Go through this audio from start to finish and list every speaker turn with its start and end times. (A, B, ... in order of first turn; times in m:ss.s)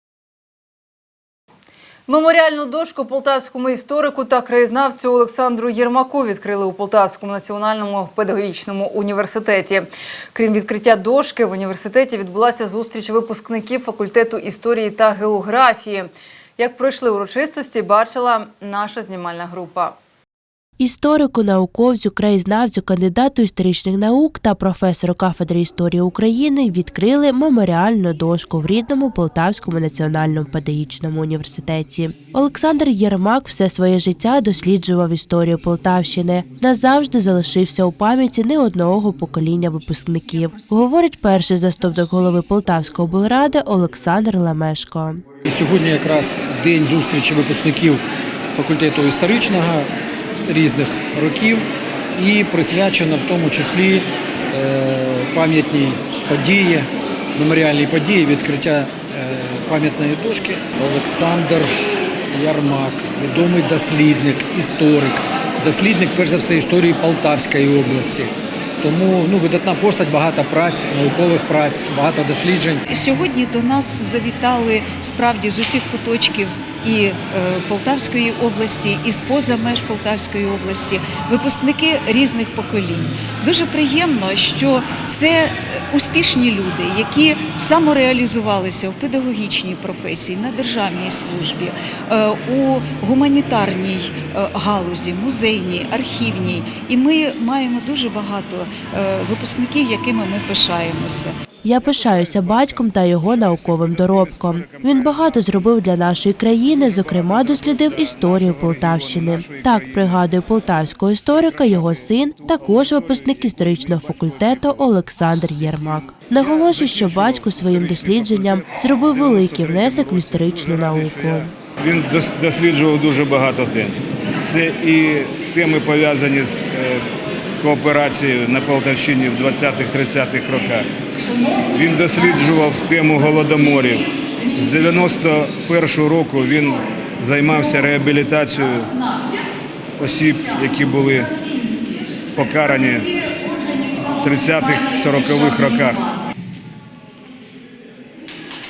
0:02.1-0:19.9 A
0:20.8-0:45.2 B
0:45.4-0:48.0 C
0:48.5-0:49.9 C
0:50.5-0:51.6 C
0:52.2-1:01.7 C
1:02.3-1:08.3 C
1:08.8-1:12.8 C
1:12.9-1:41.3 D
1:41.6-2:01.5 B
2:01.9-2:03.9 E
2:04.5-2:06.6 E
2:07.6-2:10.8 E
2:11.8-2:14.0 E
2:14.7-2:16.7 E
2:17.3-2:18.8 E
2:20.0-2:21.2 E
2:22.4-2:23.0 E
2:24.3-2:26.0 E